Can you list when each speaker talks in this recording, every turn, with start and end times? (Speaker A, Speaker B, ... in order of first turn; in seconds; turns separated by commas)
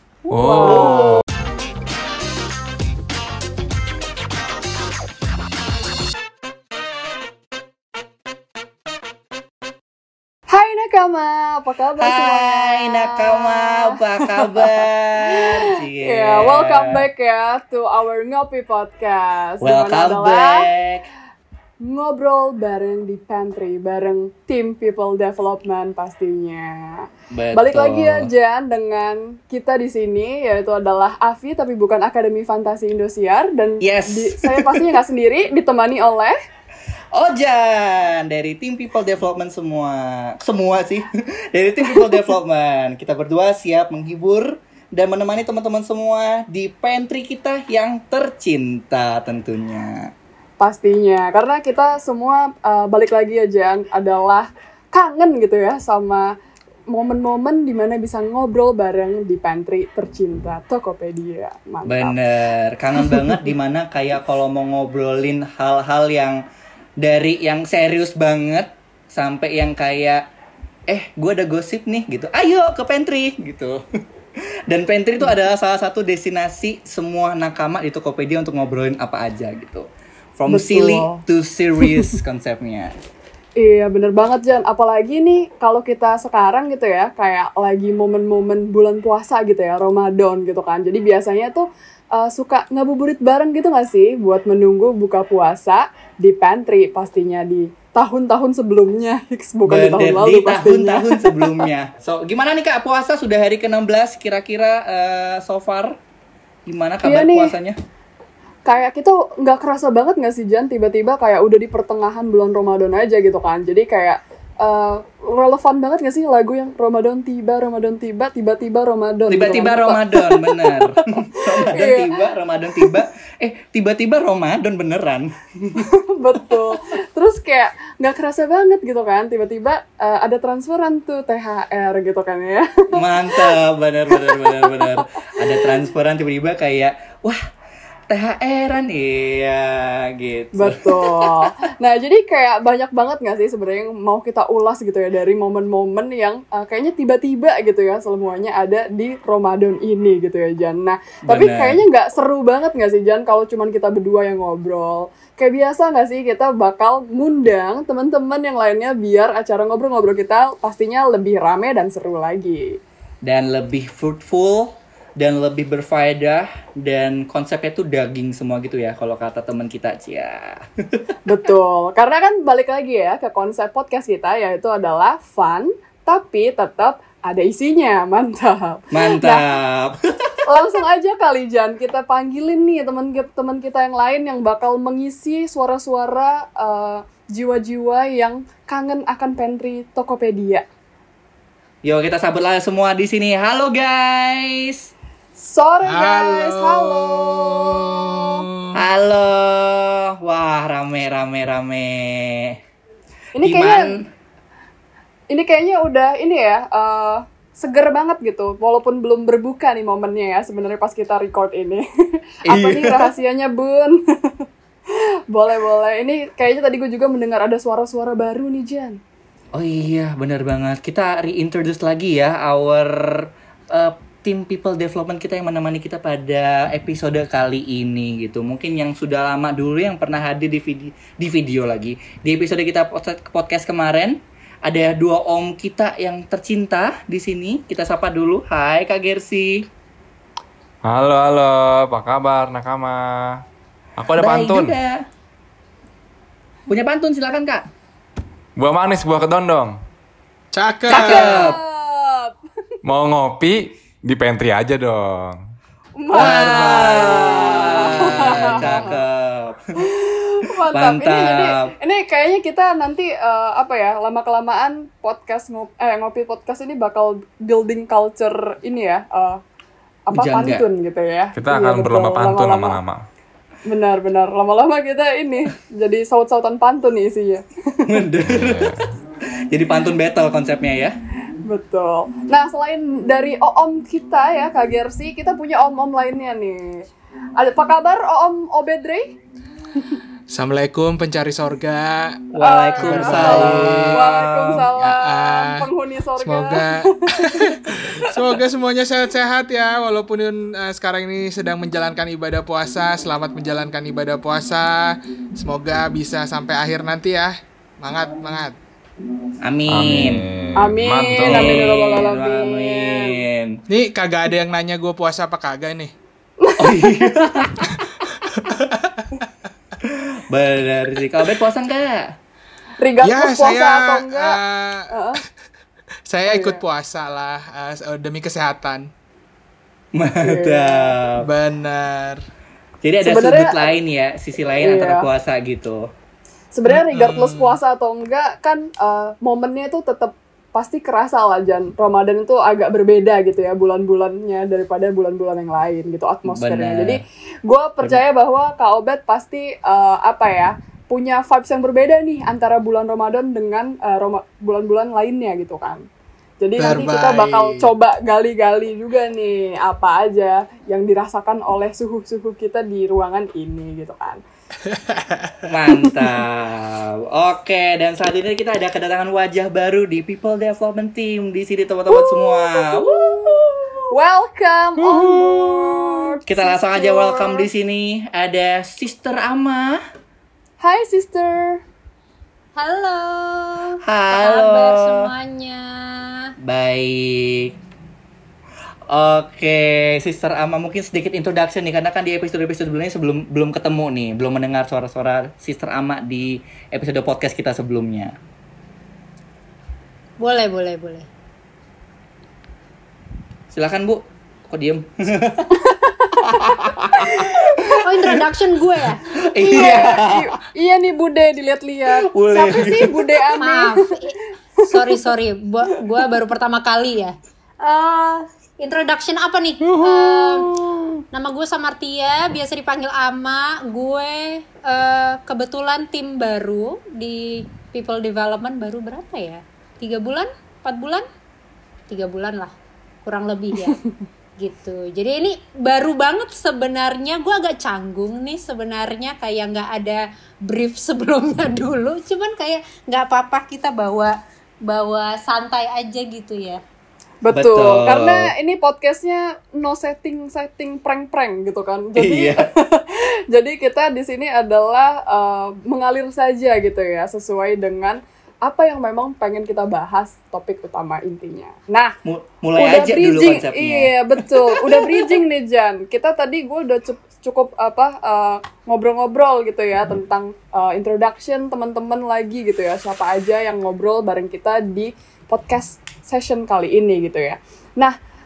Speaker A: 0.2-1.2, Speaker B: 0.3-1.2, Speaker A: 10.5-20.7, Speaker C: 12.0-17.0, Speaker C: 19.6-21.1, Speaker A: 21.8-36.4, Speaker C: 27.3-28.3, Speaker C: 33.8-34.8, Speaker C: 37.1-50.1, Speaker A: 41.9-42.3, Speaker A: 50.6-56.3, Speaker A: 56.9-62.2, Speaker C: 61.8-66.4, Speaker A: 63.0-63.5, Speaker C: 67.0-70.2, Speaker C: 70.9-73.8, Speaker C: 74.7-82.9, Speaker A: 80.5-81.2, Speaker A: 81.8-82.1, Speaker A: 83.6-101.7, Speaker C: 99.7-106.0, Speaker C: 106.7-107.8, Speaker A: 107.0-107.5, Speaker A: 108.7-120.8, Speaker C: 119.3-125.9, Speaker A: 121.4-122.1, Speaker A: 125.8-135.7, Speaker C: 132.9-137.4, Speaker C: 138.1-141.4, Speaker A: 140.6-162.8, Speaker C: 151.2-151.8, Speaker C: 163.2-171.1, Speaker A: 171.2-179.5, Speaker C: 178.9-180.4, Speaker A: 180.4-190.7, Speaker C: 191.8-194.9, Speaker A: 195.4-198.4, Speaker D: 195.8-198.8, Speaker C: 198.7-202.6, Speaker A: 203.3-203.9, Speaker C: 203.4-204.1, Speaker A: 205.3-214.4, Speaker C: 212.5-213.1, Speaker A: 215.3-219.0, Speaker C: 219.6-239.7, Speaker B: 240.8-243.4, Speaker B: 244.0-244.8, Speaker C: 244.2-245.0, Speaker C: 246.7-247.6, Speaker B: 248.6-249.8, Speaker D: 250.5-251.6, Speaker C: 250.9-251.6, Speaker A: 250.9-252.3, Speaker B: 252.8-255.4, Speaker A: 255.9-259.0, Speaker C: 256.1-259.7, Speaker D: 256.1-256.9, Speaker D: 258.2-258.9, Speaker A: 259.8-269.4, Speaker C: 260.7-261.6, Speaker A: 270.1-272.8, Speaker C: 270.1-270.6, Speaker B: 271.3-273.0, Speaker A: 273.6-277.9, Speaker C: 277.8-278.8, Speaker B: 278.2-278.8, Speaker C: 279.5-281.0, Speaker A: 281.4-286.8, Speaker A: 287.4-289.1, Speaker D: 290.3-292.2, Speaker C: 292.3-294.9, Speaker A: 292.4-298.1, Speaker D: 292.8-294.2, Speaker D: 294.9-308.6, Speaker C: 309.4-310.2, Speaker B: 309.7-311.7, Speaker A: 310.6-313.2, Speaker C: 311.2-313.6, Speaker D: 313.7-315.9, Speaker A: 316.4-317.5, Speaker C: 316.6-317.7, Speaker D: 318.3-319.2, Speaker C: 319.8-322.1, Speaker A: 322.8-324.4, Speaker D: 323.0-324.9, Speaker A: 324.9-325.2, Speaker D: 326.1-328.9, Speaker A: 326.2-326.6, Speaker C: 329.9-331.3, Speaker A: 330.2-331.0, Speaker D: 331.2-332.2, Speaker C: 332.8-335.8, Speaker A: 333.0-333.7, Speaker A: 334.6-335.1, Speaker A: 336.5-355.8, Speaker D: 336.7-337.6, Speaker C: 346.2-347.0, Speaker A: 356.4-364.2, Speaker D: 356.6-357.7, Speaker D: 364.6-366.0, Speaker C: 365.5-373.9, Speaker A: 371.9-377.5, Speaker C: 374.8-379.8, Speaker A: 380.6-381.6, Speaker E: 382.6-386.3, Speaker C: 383.8-385.1, Speaker C: 386.4-387.5, Speaker C: 388.9-398.1, Speaker E: 400.2-401.1, Speaker C: 403.5-405.6, Speaker A: 405.6-407.8, Speaker C: 406.2-407.7, Speaker E: 407.8-409.1, Speaker C: 409.2-410.3, Speaker A: 409.4-413.7, Speaker C: 411.9-413.2, Speaker E: 413.4-420.5, Speaker A: 414.6-414.9, Speaker E: 421.1-431.0, Speaker E: 431.9-432.5, Speaker E: 433.0-433.8, Speaker E: 434.4-446.6, Speaker A: 447.2-461.9, Speaker C: 447.3-448.3, Speaker C: 451.9-452.4, Speaker C: 462.1-465.2, Speaker A: 462.6-477.9